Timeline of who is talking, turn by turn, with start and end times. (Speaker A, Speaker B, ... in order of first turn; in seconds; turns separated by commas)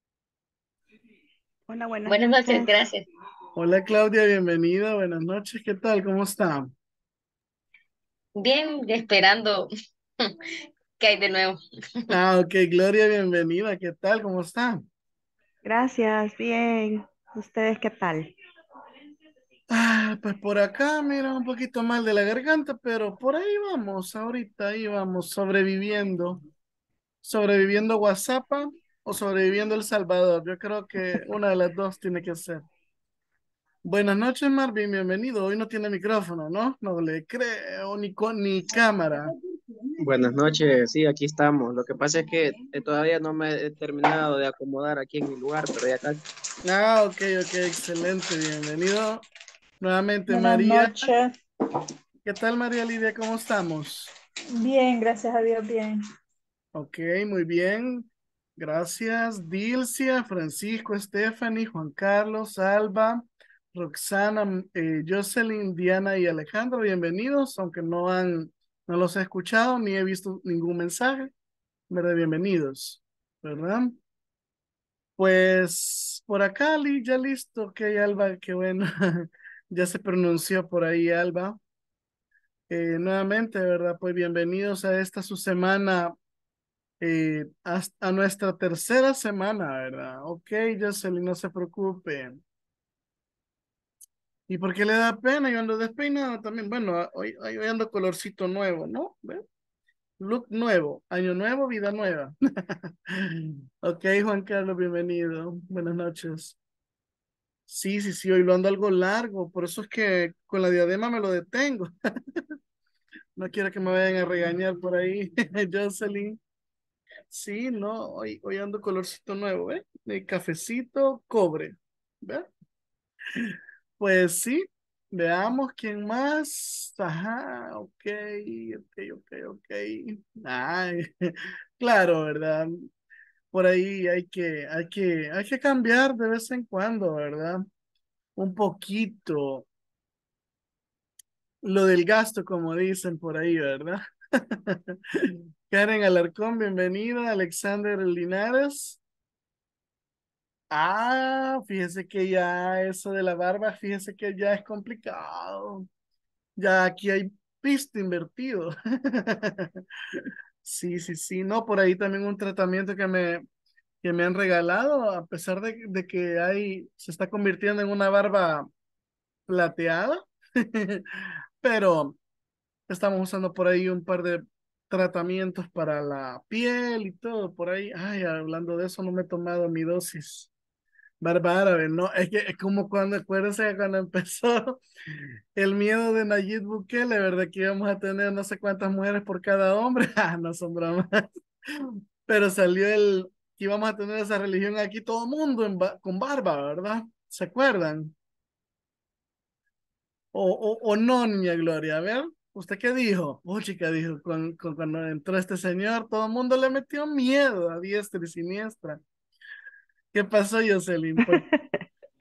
Speaker A: 1.7-2.7, Speaker B: 2.1-3.0, Speaker C: 3.5-6.7, Speaker B: 8.4-10.4, Speaker B: 11.0-11.6, Speaker C: 12.1-14.8, Speaker A: 15.6-18.3, Speaker C: 19.7-26.4, Speaker C: 27.2-32.6, Speaker C: 33.8-39.3, Speaker D: 40.0-46.2, Speaker C: 46.6-49.2, Speaker C: 49.8-51.1, Speaker E: 50.3-51.3, Speaker C: 52.2-54.1, Speaker E: 54.5-56.0, Speaker C: 56.7-71.3, Speaker C: 71.9-74.0, Speaker C: 75.2-81.6, Speaker C: 82.7-86.2, Speaker C: 87.0-92.4, Speaker C: 94.5-99.4, Speaker C: 100.2-106.5, Speaker C: 107.7-112.5, Speaker C: 113.4-116.4, Speaker C: 117.3-122.5, Speaker C: 123.3-132.9, Speaker C: 133.5-137.6, Speaker C: 138.4-139.7, Speaker C: 141.6-149.0, Speaker C: 150.7-155.8, Speaker C: 156.6-163.4, Speaker C: 164.0-168.7, Speaker C: 169.5-172.2, Speaker C: 172.9-180.5, Speaker C: 181.2-198.1, Speaker C: 200.3-209.0, Speaker C: 210.1-211.4, Speaker A: 211.2-211.8